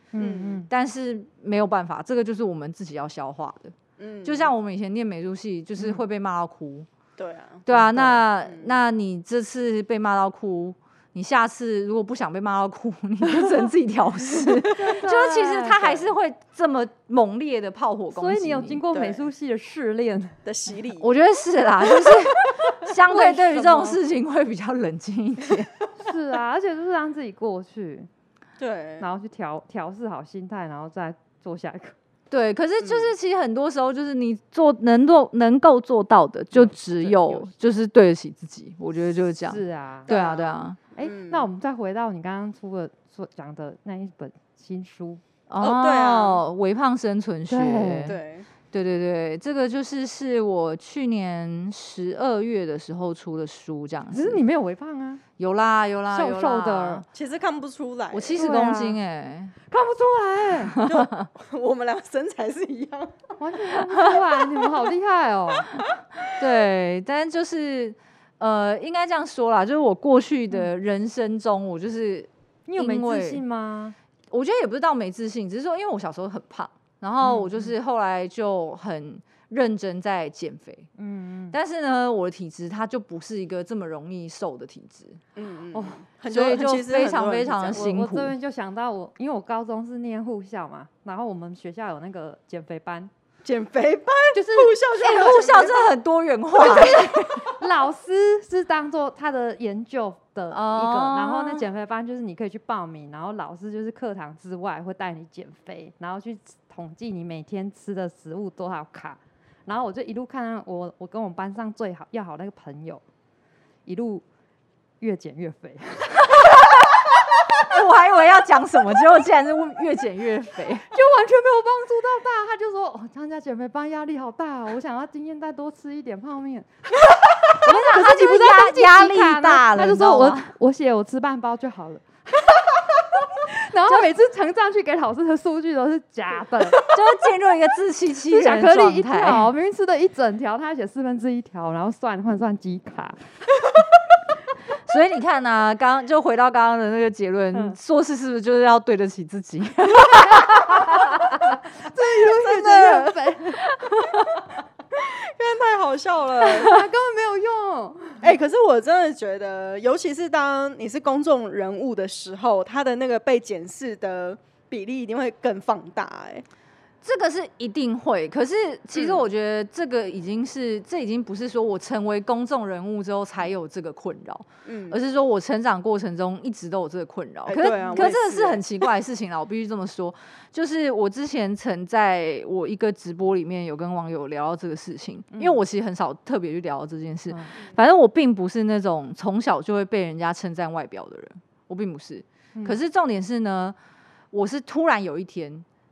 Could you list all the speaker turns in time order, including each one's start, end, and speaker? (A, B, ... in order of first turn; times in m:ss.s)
0:00.1-0:00.7 A
0:00.2-0:00.6 B
0:00.7-0:06.9 C
0:04.0-0:04.5 B
0:07.2-0:08.8 B
0:07.6-0:18.8 C
0:14.7-0:15.8 A
0:15.8-0:16.1 B
0:18.1-0:20.4 A
0:18.9-0:19.2 B
0:20.4-0:21.1 B
0:21.0-0:25.7 C
0:22.8-0:24.0 A
0:26.0-0:28.1 A
0:28.6-0:29.0 B
0:29.0-0:31.9 A
0:32.3-0:40.8 C
0:32.8-0:33.1 B
0:39.4-0:40.1 A
0:40.1-0:41.5 B
0:40.9-0:45.2 A
0:45.5-0:48.2 C
0:45.6-0:46.4 B
0:47.5-0:48.1 A
0:48.0-0:48.5 B
0:48.7-0:54.4 C
0:54.1-0:55.2 A
0:55.4-0:57.0 C
0:56.1-0:57.0 A
0:57.1-0:58.5 B
0:58.1-0:59.5 C
0:58.4-0:59.0 A
0:59.7-1:00.8 A
1:00.7-1:01.3 C
1:00.8-1:03.4 B
1:03.4-1:05.7 A
1:06.4-1:13.4 C
1:12.7-1:14.0 A
1:14.3-1:20.9 C
1:17.2-1:17.7 A
1:21.0-1:21.6 A
1:21.5-1:25.2 C
1:25.4-1:27.8 B
1:25.7-1:26.0 A
1:26.3-1:28.3 C
1:27.7-1:33.1 A
1:33.4-1:35.9 B
1:34.3-1:34.7 A
1:35.0-1:37.5 C
1:37.6-1:53.0 A
1:40.5-1:41.7 C
1:53.8-1:54.2 A
1:55.0-1:56.3 A
1:56.3-1:57.0 C
1:57.5-2:00.9 C
2:00.9-2:07.0 A
2:07.5-2:12.6 A
2:07.6-2:10.5 C
2:13.4-2:16.8 A
2:16.8-2:19.5 C
2:18.3-2:23.2 A
2:24.8-2:31.4 C
2:30.2-2:33.6 A
2:32.0-2:33.3 B
2:33.8-2:34.4 C
2:34.9-2:36.8 B
2:36.4-2:38.2 A
2:38.2-2:46.4 B
2:47.0-3:13.8 C
2:48.9-2:49.2 B
2:54.6-2:55.0 B
2:57.4-2:58.7 B
2:57.7-2:58.1 A
3:05.3-3:05.6 A
3:07.3-3:07.5 A
3:14.3-3:15.6 C